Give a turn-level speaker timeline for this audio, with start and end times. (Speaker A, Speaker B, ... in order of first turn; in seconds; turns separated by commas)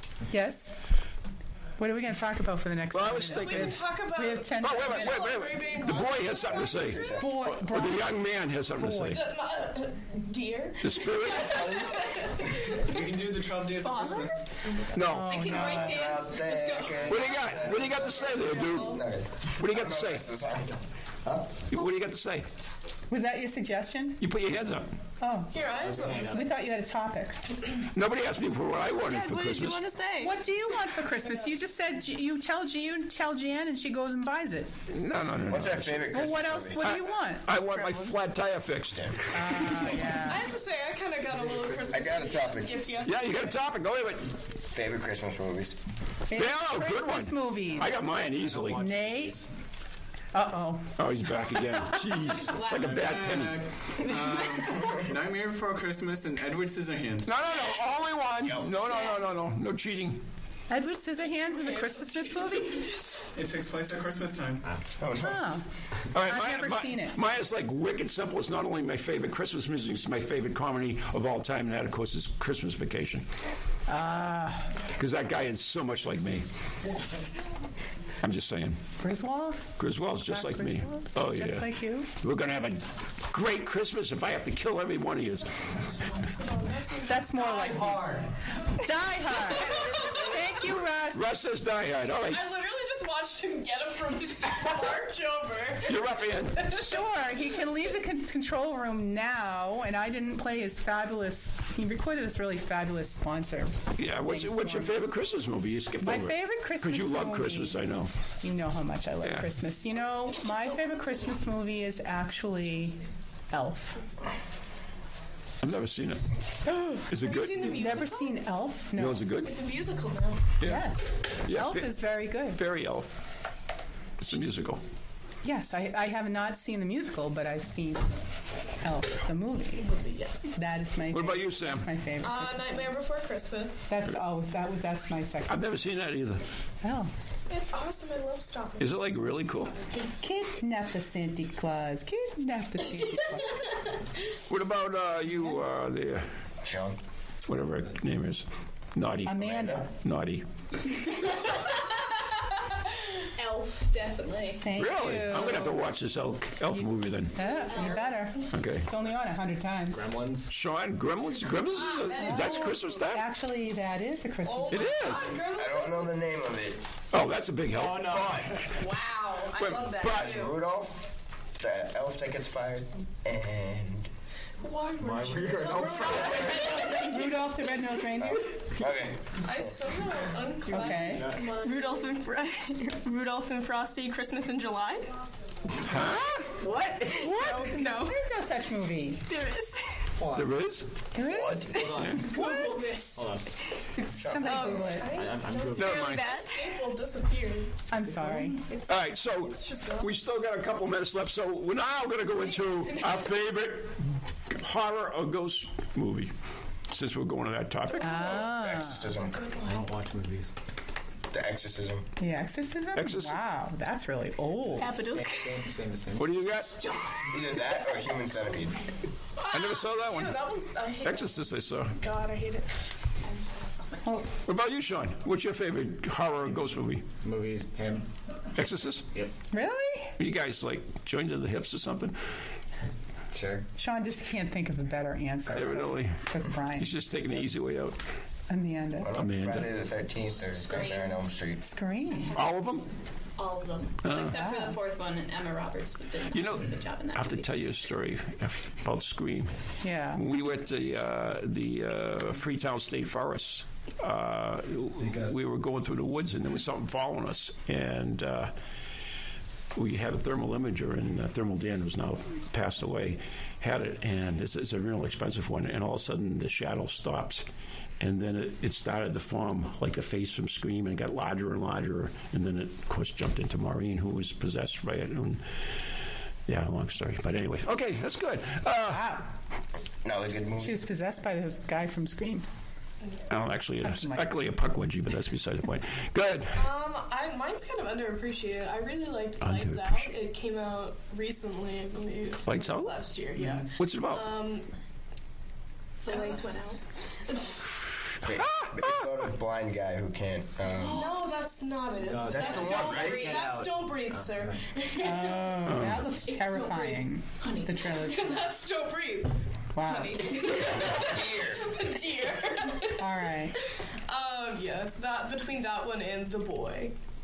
Speaker A: 0.3-0.7, Speaker A: 1.8-5.2, Speaker B: 2.9-3.9, Speaker C: 3.4-7.3, Speaker B: 4.6-9.2, Speaker D: 6.3-7.3, Speaker A: 7.2-8.2, Speaker A: 8.7-9.2, Speaker C: 9.1-13.1, Speaker B: 10.8-11.7, Speaker D: 11.4-12.5, Speaker E: 12.8-14.4, Speaker F: 13.8-14.3, Speaker C: 14.8-19.1, Speaker B: 14.9-15.7, Speaker A: 15.0-16.0, Speaker F: 15.3-16.8, Speaker D: 15.4-21.6, Speaker B: 17.1-19.0, Speaker B: 19.6-20.3, Speaker B: 21.7-22.5, Speaker A: 23.1-24.2, Speaker B: 24.2-24.9, Speaker A: 25.2-27.4, Speaker C: 25.5-26.5, Speaker G: 25.7-26.5, Speaker B: 27.9-29.9, Speaker F: 29.0-30.3, Speaker A: 30.2-34.7, Speaker B: 34.9-36.2, Speaker D: 35.5-37.0, Speaker A: 36.1-37.5, Speaker B: 36.8-40.1, Speaker D: 37.7-38.1, Speaker D: 38.9-39.2, Speaker A: 39.3-40.5, Speaker C: 40.2-43.6, Speaker G: 41.4-42.0, Speaker D: 41.9-42.9, Speaker B: 43.0-44.3, Speaker D: 44.7-45.8, Speaker A: 46.3-48.0, Speaker B: 46.3-48.9, Speaker G: 48.1-49.5, Speaker A: 48.8-49.4, Speaker A: 50.3-51.0, Speaker B: 51.0-53.6, Speaker E: 52.8-57.3, Speaker B: 57.2-60.2, Speaker D: 58.4-58.8, Speaker A: 60.7-62.9, Speaker C: 61.2-62.9, Speaker E: 63.3-64.6, Speaker D: 65.0-65.4, Speaker A: 65.2-65.6, Speaker B: 66.1-73.2, Speaker A: 66.2-67.2, Speaker A: 73.9-74.7, Speaker B: 74.9-76.4, Speaker B: 78.2-78.8, Speaker A: 79.0-82.1, Speaker B: 79.8-85.7, Speaker C: 86.2-88.0, Speaker A: 87.1-91.2, Speaker G: 87.5-88.3, Speaker C: 89.5-90.3, Speaker G: 89.7-90.3, Speaker B: 91.1-92.4, Speaker C: 92.3-97.0, Speaker B: 95.8-96.7, Speaker A: 96.7-104.9, Speaker B: 104.0-108.1, Speaker A: 106.0-107.8, Speaker A: 108.4-113.0, Speaker B: 109.2-109.5, Speaker A: 113.5-114.0, Speaker B: 115.6-116.2, Speaker A: 116.7-117.0, Speaker B: 116.9-118.0, Speaker C: 117.2-118.4, Speaker A: 117.6-119.3, Speaker B: 118.9-119.5, Speaker C: 119.4-120.4, Speaker B: 120.6-123.1, Speaker A: 120.6-122.6, Speaker B: 124.2-124.8, Speaker A: 125.4-128.1, Speaker A: 128.8-129.9, Speaker C: 129.8-130.5, Speaker A: 130.5-132.9, Speaker B: 131.1-131.9, Speaker C: 132.2-133.8, Speaker A: 133.9-135.7, Speaker B: 135.5-136.4, Speaker A: 136.8-137.1, Speaker C: 137.5-139.0, Speaker B: 138.8-139.7, Speaker A: 140.2-143.6, Speaker B: 144.5-146.2, Speaker D: 146.6-147.0, Speaker B: 147.5-150.4, Speaker A: 149.2-149.9, Speaker D: 149.4-149.8, Speaker H: 153.4-154.6, Speaker F: 153.7-153.9, Speaker A: 154.6-155.8, Speaker B: 154.8-157.3, Speaker A: 156.7-160.0, Speaker H: 157.7-158.1, Speaker B: 158.5-158.9, Speaker G: 159.9-160.5, Speaker B: 160.5-163.2, Speaker C: 161.7-162.8, Speaker A: 162.2-165.1, Speaker C: 164.4-166.1, Speaker B: 164.7-165.4, Speaker D: 165.5-166.8, Speaker B: 167.1-168.6, Speaker G: 167.7-168.5, Speaker D: 168.0-168.6, Speaker C: 168.7-170.6, Speaker B: 169.6-170.5, Speaker D: 170.0-174.1, Speaker C: 174.6-177.7, Speaker G: 175.0-177.1, Speaker B: 175.9-176.6, Speaker A: 176.9-178.5, Speaker D: 178.2-179.8, Speaker C: 179.4-182.1, Speaker A: 180.7-181.3, Speaker G: 180.8-181.7, Speaker F: 181.5-185.1, Speaker B: 185.8-186.5, Speaker G: 186.6-187.6, Speaker F: 187.1-188.2, Speaker B: 187.2-187.7, Speaker C: 187.3-188.1, Speaker A: 187.9-189.2, Speaker F: 189.2-190.1, Speaker G: 190.2-190.6, Speaker B: 190.3-190.9, Speaker A: 191.1-191.7, Speaker D: 191.2-192.1, Speaker G: 191.7-192.4, Speaker F: 191.7-193.2, Speaker C: 192.1-193.2, Speaker G: 193.1-193.6, Speaker A: 194.0-195.1, Speaker D: 194.1-195.0, Speaker F: 194.4-196.8, Speaker C: 194.6-197.8, Speaker G: 195.1-196.2, Speaker B: 195.7-196.3, Speaker A: 197.9-198.6, Speaker G: 198.2-198.6, Speaker C: 198.7-200.1, Speaker B: 198.8-206.3, Speaker C: 202.5-203.3, Speaker B: 206.9-208.5, Speaker A: 208.0-209.1, Speaker D: 208.2-209.4, Speaker C: 209.3-209.8, Speaker G: 209.6-210.5, Speaker D: 211.3-212.1, Speaker A: 212.2-215.0, Speaker B: 212.9-213.4, Speaker F: 214.8-215.6, Speaker G: 214.8-216.5, Speaker B: 216.2-216.7, Speaker D: 217.3-218.8, Speaker C: 219.4-221.4, Speaker B: 219.5-220.5, Speaker B: 221.0-221.9, Speaker C: 222.0-222.7, Speaker B: 224.4-227.0, Speaker G: 227.2-228.1, Speaker B: 228.6-229.1, Speaker A: 229.5-230.2, Speaker B: 230.2-232.2, Speaker G: 233.3-233.7, Speaker A: 233.8-236.9, Speaker B: 235.5-236.2, Speaker B: 236.8-238.0, Speaker A: 238.5-239.1, Speaker D: 239.0-241.6, Speaker B: 239.1-239.7, Speaker H: 240.5-241.1, Speaker A: 241.7-242.3, Speaker B: 242.3-242.9, Speaker H: 243.4-247.5, Speaker B: 244.0-244.5, Speaker A: 244.3-244.8, Speaker B: 246.3-249.5, Speaker A: 249.8-250.2, Speaker B: 250.1-258.5, Speaker B: 259.7-267.4, Speaker B: 268.0-275.7, Speaker B: 276.5-279.2, Speaker A: 278.9-279.2, Speaker D: 280.0-280.8, Speaker A: 280.6-282.4, Speaker B: 283.3-286.7, Speaker A: 283.8-284.3, Speaker C: 286.5-294.7, Speaker B: 289.4-290.1, Speaker B: 292.4-292.9, Speaker B: 293.7-294.4, Speaker C: 296.1-297.6, Speaker H: 296.1-296.4, Speaker D: 298.2-301.2, Speaker B: 298.2-299.2, Speaker C: 300.8-305.7, Speaker G: 302.0-304.6, Speaker D: 302.2-303.5, Speaker A: 305.0-308.4, Speaker B: 305.6-306.1, Speaker C: 306.2-307.0, Speaker H: 307.4-307.8, Speaker C: 307.9-313.1, Speaker A: 309.7-310.3, Speaker D: 310.5-311.7, Speaker A: 313.0-313.6, Speaker C: 313.6-316.9